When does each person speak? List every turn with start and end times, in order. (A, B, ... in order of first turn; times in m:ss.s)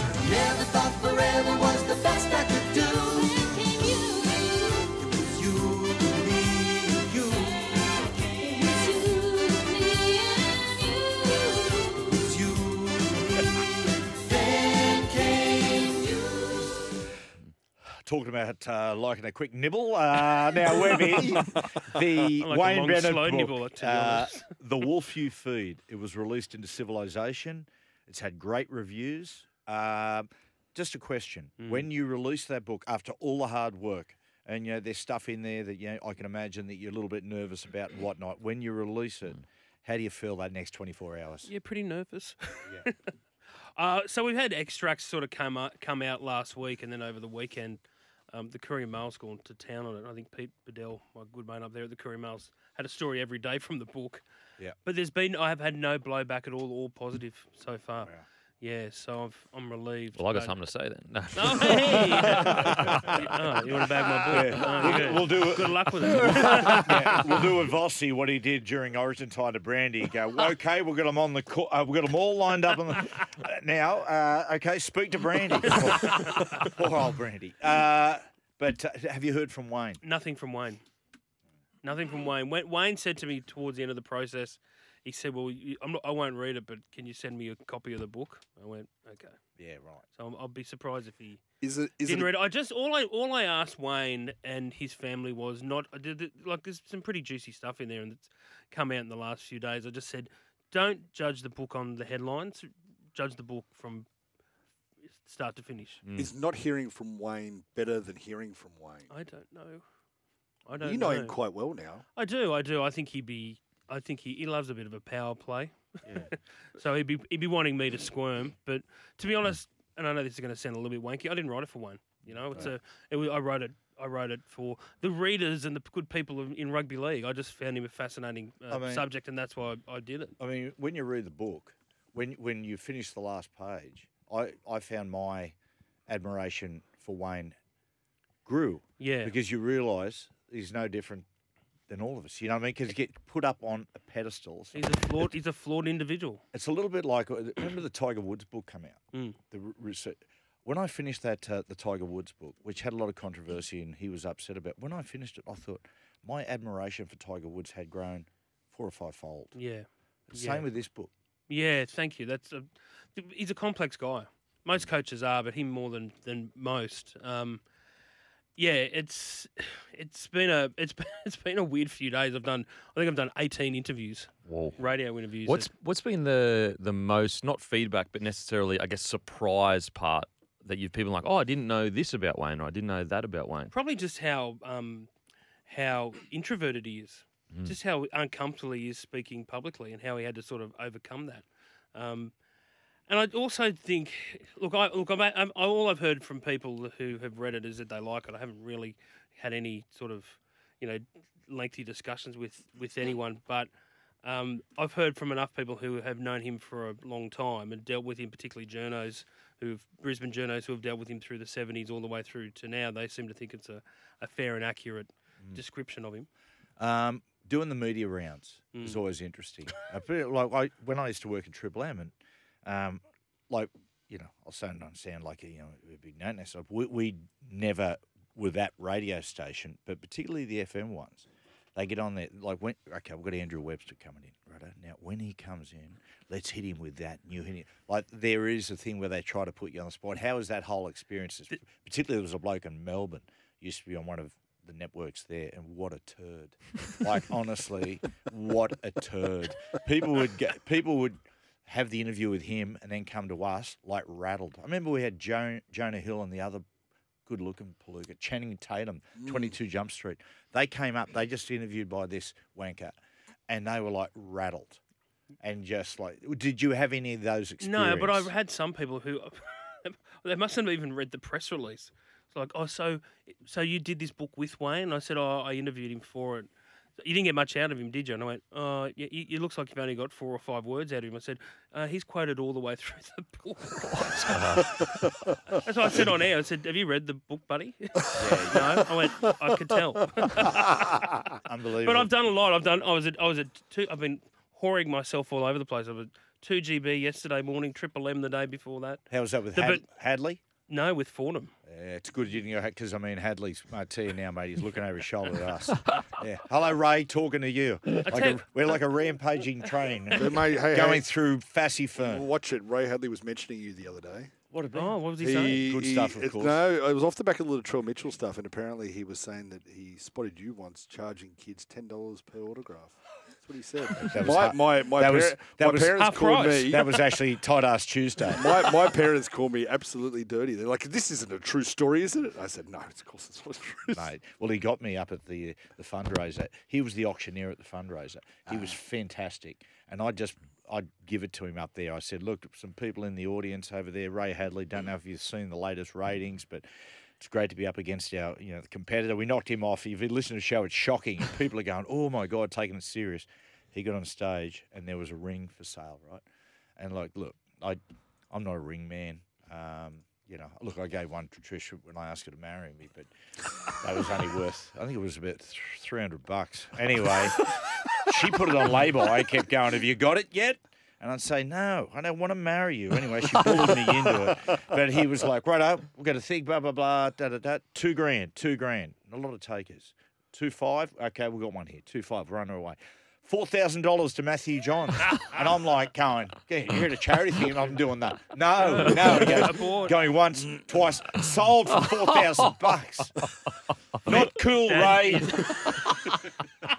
0:00.8-0:02.8 A
0:18.0-0:41.5 B
0:22.4-0:24.5 C
0:31.6-0:31.9 C
0:41.4-0:43.0 C
0:43.8-0:54.2 C
0:54.8-1:00.5 C
1:00.2-1:03.2 D
1:01.3-1:07.2 C
1:02.6-1:03.0 B
1:04.3-1:20.0 B
1:20.0-1:20.8 C
1:21.8-1:29.4 C
1:29.6-1:30.0 B
1:30.1-1:31.4 C
1:31.6-1:32.3 A
1:32.0-1:44.1 C
1:45.1-1:46.0 C
1:46.0-1:46.3 D
1:46.2-1:49.1 A
1:49.1-1:49.8 C
1:50.7-1:51.4 C
1:50.8-1:52.0 A
1:52.2-2:10.4 C
2:08.7-2:09.0 B
2:10.4-2:15.6 B
2:16.1-2:17.6 B
2:18.4-2:21.3 B
2:19.0-2:19.3 C
2:21.9-2:25.3 B
2:24.7-2:26.4 C
2:26.5-2:39.6 B
2:29.1-2:29.4 C
2:39.5-2:40.7 C
2:40.3-2:41.1 B
2:41.5-2:47.6 C
2:48.6-2:55.7 C
2:54.5-2:54.8 D
2:55.4-3:03.7 D
3:03.7-3:05.1 C
3:05.7-3:12.3 C
3:13.1-3:23.7 C
3:24.2-3:36.3 C
3:36.8-4:16.6 B
3:38.7-3:39.0 C
4:17.3-4:23.0 B
4:23.5-4:24.8 B
4:25.4-4:28.3 B
4:27.6-4:45.0 C
4:44.3-4:44.6 D
4:44.8-4:45.1 A
4:45.5-4:51.1 C
4:48.2-4:48.8 B
4:51.4-4:52.1 B
4:51.8-4:59.9 C
4:59.1-5:00.4 B
5:00.7-5:01.5 C
5:01.7-5:12.3 B
5:08.0-5:08.8 C
5:10.1-5:11.1 A
5:12.0-5:14.3 A
5:14.5-5:16.6 B
5:14.7-5:15.7 C
5:15.2-5:27.0 A
5:24.0-5:28.4 B
5:26.0-5:26.9 C
5:28.3-5:34.1 A
5:33.9-5:46.7 B
5:47.2-5:56.2 B
5:56.8-6:03.1 B
6:03.7-6:33.3 B
6:28.7-6:30.0 C
6:34.0-6:35.6 B
6:34.1-6:35.7 C